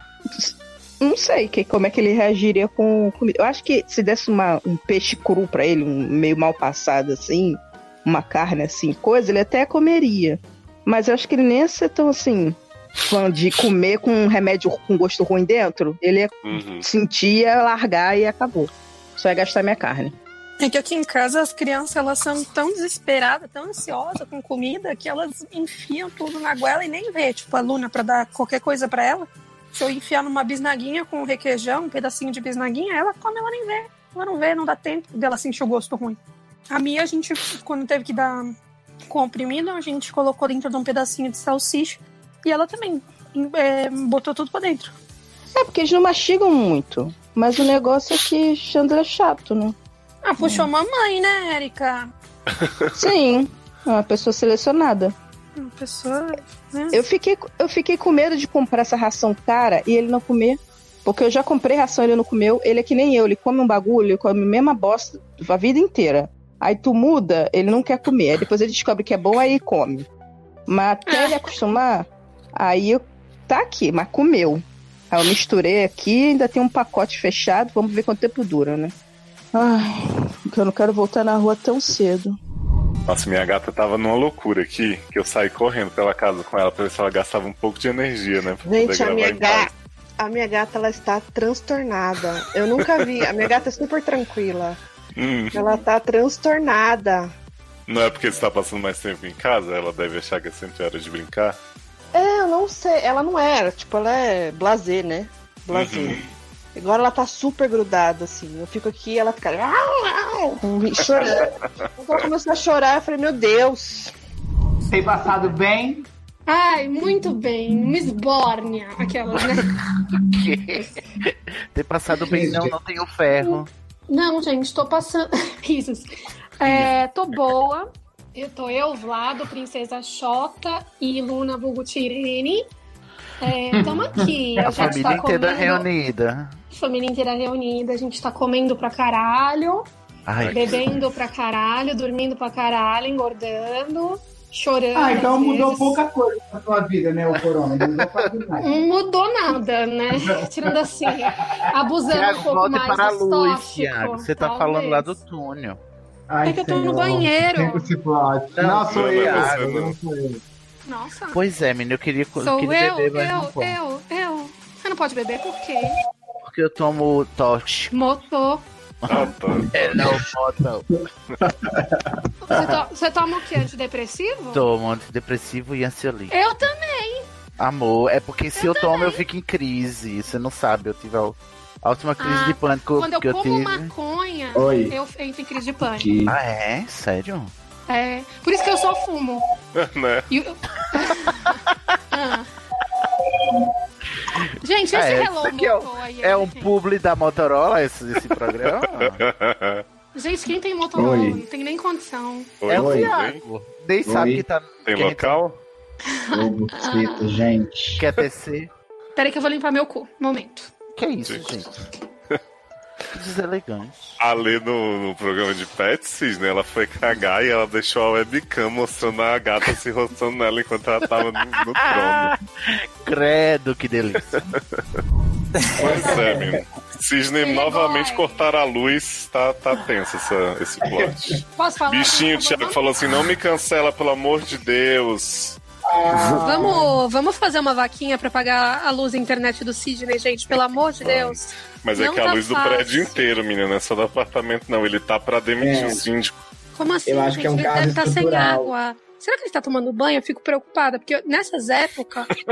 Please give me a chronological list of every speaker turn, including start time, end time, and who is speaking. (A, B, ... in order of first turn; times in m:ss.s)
0:00.3-0:20.2 A
0:16.4-0:16.8 B
0:20.6-0:38.6 C
0:39.1-0:45.0 C
0:45.6-0:49.8 A
0:50.2-0:52.1 C
0:50.4-0:50.7 A
0:52.9-0:55.2 A
0:55.6-0:57.0 C
0:56.9-1:10.1 A
1:10.7-1:18.9 A
1:11.1-1:11.5 C
1:19.5-1:22.4 A
1:23.1-1:29.7 B
1:28.6-1:34.8 D
1:32.8-1:33.3 B
1:35.2-1:35.6 B
1:35.5-1:37.3 D
1:37.9-1:41.6 B
1:42.1-1:51.5 D
1:45.7-1:46.2 B
1:52.0-1:54.1 D
1:54.9-1:56.1 E
1:56.5-1:59.7 C
2:00.3-2:03.7 F
2:02.3-2:02.8 E
2:03.4-2:12.7 C
2:13.4-2:15.9 C
2:13.8-2:15.0 E
2:14.6-2:16.6 F
2:16.7-2:19.9 C
2:20.3-2:21.0 F
2:20.4-2:20.7 B
2:20.5-2:26.0 C
2:25.0-2:28.8 E
2:28.0-2:28.3 F
2:28.6-2:35.1 C
2:30.2-2:30.5 E
2:31.2-2:31.6 E
2:32.1-2:35.8 F
2:36.3-2:40.4 E
2:36.4-2:37.9 C
2:38.6-2:39.7 F
2:38.9-2:40.0 B
2:40.9-2:41.4 C
2:41.3-2:43.8 F
2:42.4-2:46.0 C
2:46.4-2:47.9 F
2:47.9-2:48.6 C
2:49.0-2:50.8 F
2:49.1-2:50.1 B
2:51.4-2:52.7 E
2:52.4-2:54.7 C
2:54.5-2:56.4 F
2:56.3-2:57.3 C
2:57.6-3:03.9 F
2:58.6-2:59.2 C
3:02.2-3:06.1 C
3:04.5-3:05.0 E
3:05.9-3:06.4 E
3:06.3-3:07.5 F
3:07.9-3:09.5 C
3:09.8-3:10.3 B
3:10.3-3:12.5 C
3:14.6-3:16.7 C
3:14.9-3:19.2 F
3:18.8-3:19.8 B
3:20.2-3:22.5 C
3:21.0-3:21.4 E
3:22.6-3:23.4 B
3:22.7-3:25.4 F
3:22.7-3:23.1 E
3:24.1-3:24.4 E
3:24.9-3:25.6 B
3:26.1-3:27.3 C
3:26.3-3:28.0 E
3:28.0-3:28.7 F
3:29.2-3:30.7 C
3:31.0-3:31.7 F
3:31.2-3:31.6 B
3:33.1-3:34.2 F
3:34.2-3:42.4 B
3:41.8-3:44.4 F
3:45.8-3:46.6 E
3:45.8-3:55.6 B
3:47.4-3:48.4 C
3:51.6-3:52.8 C
3:55.9-3:57.0 E
3:56.3-4:03.2 C
4:01.0-4:06.4 B
4:05.6-4:06.0 E
4:06.8-4:12.3 C
4:07.1-4:08.7 E